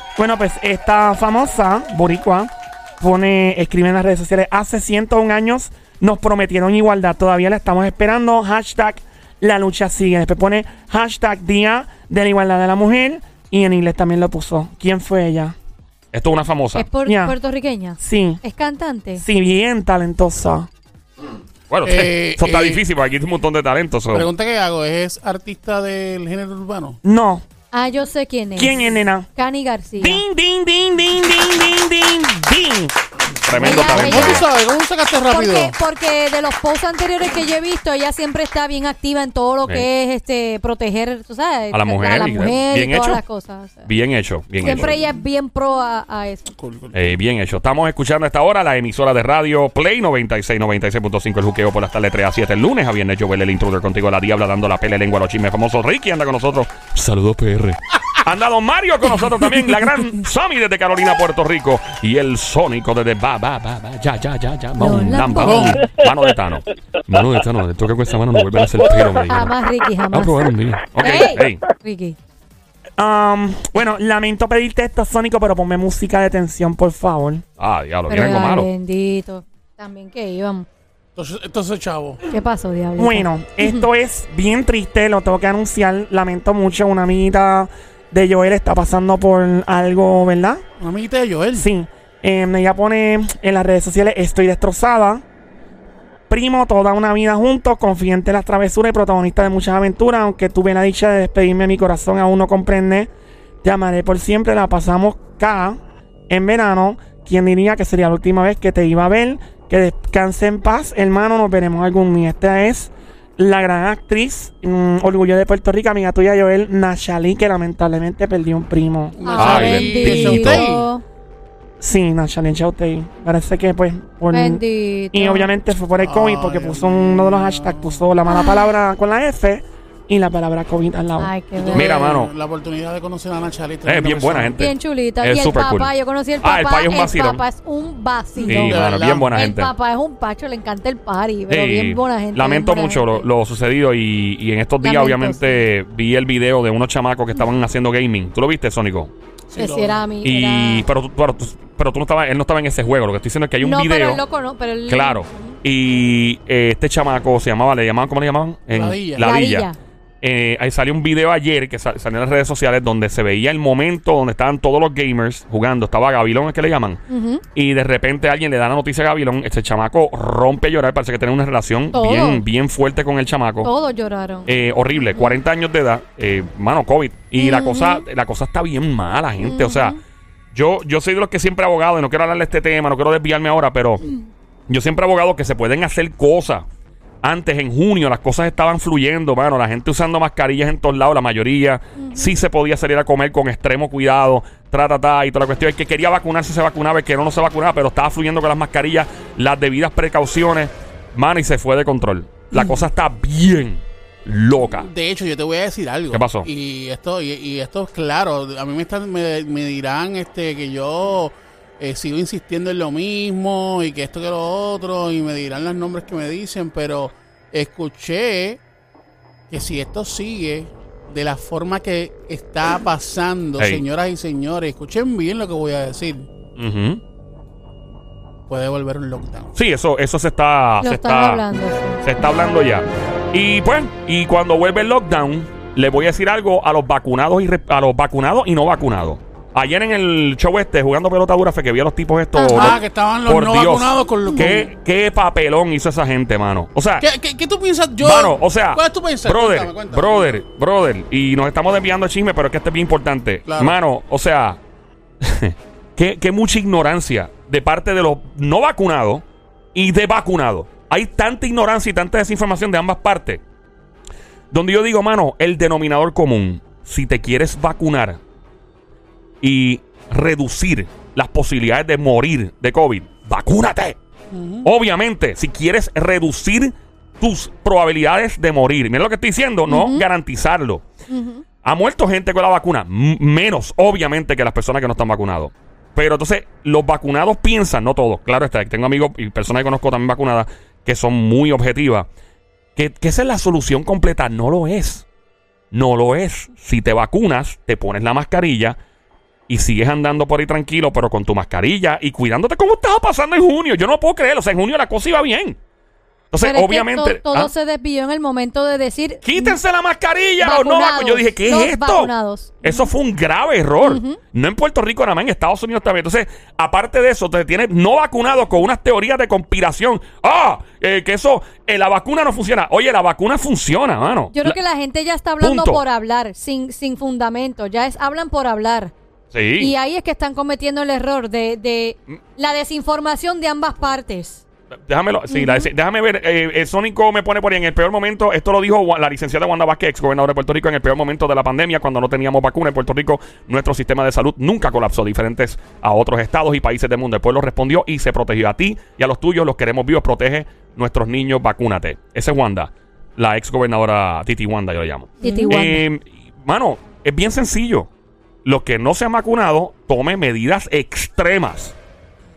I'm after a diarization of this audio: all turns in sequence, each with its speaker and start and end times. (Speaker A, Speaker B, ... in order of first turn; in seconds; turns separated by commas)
Speaker A: 0.2-15.5, Speaker B: 16.1-16.9, Speaker C: 16.7-19.2, Speaker A: 17.0-17.4, Speaker A: 18.0-18.4, Speaker A: 19.2-20.7, Speaker B: 21.7-24.3, Speaker D: 21.8-22.8, Speaker D: 24.1-27.0, Speaker A: 27.0-27.4, Speaker C: 27.7-28.8, Speaker A: 28.6-29.3, Speaker C: 29.4-30.2, Speaker A: 30.0-32.9, Speaker B: 33.4-34.5, Speaker C: 33.6-34.5, Speaker D: 33.6-35.7, Speaker C: 35.3-43.9, Speaker B: 41.7-43.2, Speaker B: 43.8-45.0, Speaker C: 44.6-46.5, Speaker D: 44.6-45.0, Speaker D: 46.5-47.1, Speaker B: 46.9-56.9, Speaker E: 56.9-57.8, Speaker B: 58.2-66.7, Speaker C: 64.8-65.8, Speaker E: 65.0-65.5, Speaker D: 65.4-65.8, Speaker E: 67.1-69.5, Speaker B: 68.8-69.0, Speaker C: 69.3-72.2, Speaker E: 70.1-70.9, Speaker B: 70.2-71.6, Speaker A: 73.0-77.4, Speaker B: 77.6-78.7, Speaker C: 78.1-80.7, Speaker D: 81.2-82.2, Speaker C: 82.3-83.8, Speaker A: 83.0-90.6, Speaker D: 90.8-91.7, Speaker A: 91.5-95.2, Speaker A: 96.3-103.1, Speaker A: 103.6-119.2, Speaker D: 119.2-120.9, Speaker C: 119.2-121.0, Speaker B: 119.4-120.6, Speaker E: 119.8-120.3, Speaker A: 121.8-124.6, Speaker C: 124.3-125.5, Speaker A: 125.1-131.3, Speaker D: 126.0-128.1, Speaker C: 128.2-128.7, Speaker C: 131.2-132.1, Speaker D: 131.6-134.6, Speaker B: 131.7-132.3, Speaker B: 133.8-135.9, Speaker C: 134.6-143.3, Speaker B: 136.4-137.4, Speaker D: 138.4-139.3, Speaker B: 138.5-139.7, Speaker B: 141.5-149.1, Speaker C: 144.8-145.7, Speaker D: 149.5-150.0, Speaker C: 149.6-150.8, Speaker B: 150.2-154.2, Speaker C: 153.6-155.5, Speaker B: 154.9-159.7, Speaker D: 158.7-159.3, Speaker C: 159.2-159.8, Speaker B: 160.2-167.0, Speaker C: 167.1-167.4, Speaker B: 167.5-173.7, Speaker C: 171.9-172.4, Speaker C: 173.6-174.5, Speaker B: 174.5-180.0, Speaker C: 175.1-175.4, Speaker C: 177.4-178.1, Speaker C: 179.4-180.0, Speaker B: 180.5-184.0, Speaker B: 184.7-186.7, Speaker B: 187.2-204.9, Speaker C: 192.0-192.3, Speaker D: 204.8-218.6, Speaker B: 206.1-206.5, Speaker D: 219.5-226.3, Speaker B: 226.6-227.0, Speaker D: 228.5-229.5, Speaker B: 229.5-231.4, Speaker C: 230.8-232.0, Speaker B: 232.0-247.1, Speaker C: 242.3-242.8, Speaker D: 242.5-244.7, Speaker D: 247.0-250.4, Speaker B: 248.0-254.6, Speaker D: 253.5-253.8, Speaker B: 255.2-259.2, Speaker B: 259.7-263.4, Speaker B: 264.5-268.2, Speaker B: 269.4-274.0, Speaker D: 274.3-274.7, Speaker B: 274.6-280.8, Speaker C: 279.7-280.1, Speaker C: 281.1-281.4, Speaker B: 281.6-292.1, Speaker B: 292.8-295.0, Speaker B: 295.7-298.8, Speaker B: 299.5-305.6, Speaker B: 306.3-307.5, Speaker C: 306.4-309.6, Speaker B: 309.2-312.1, Speaker C: 310.4-312.9, Speaker B: 312.6-324.6, Speaker C: 313.8-314.2, Speaker C: 324.3-328.9, Speaker B: 325.4-325.8, Speaker B: 329.3-329.7, Speaker C: 329.6-334.4, Speaker B: 334.9-357.9, Speaker C: 335.3-335.7, Speaker C: 355.2-355.8, Speaker D: 355.2-355.6, Speaker B: 358.4-361.8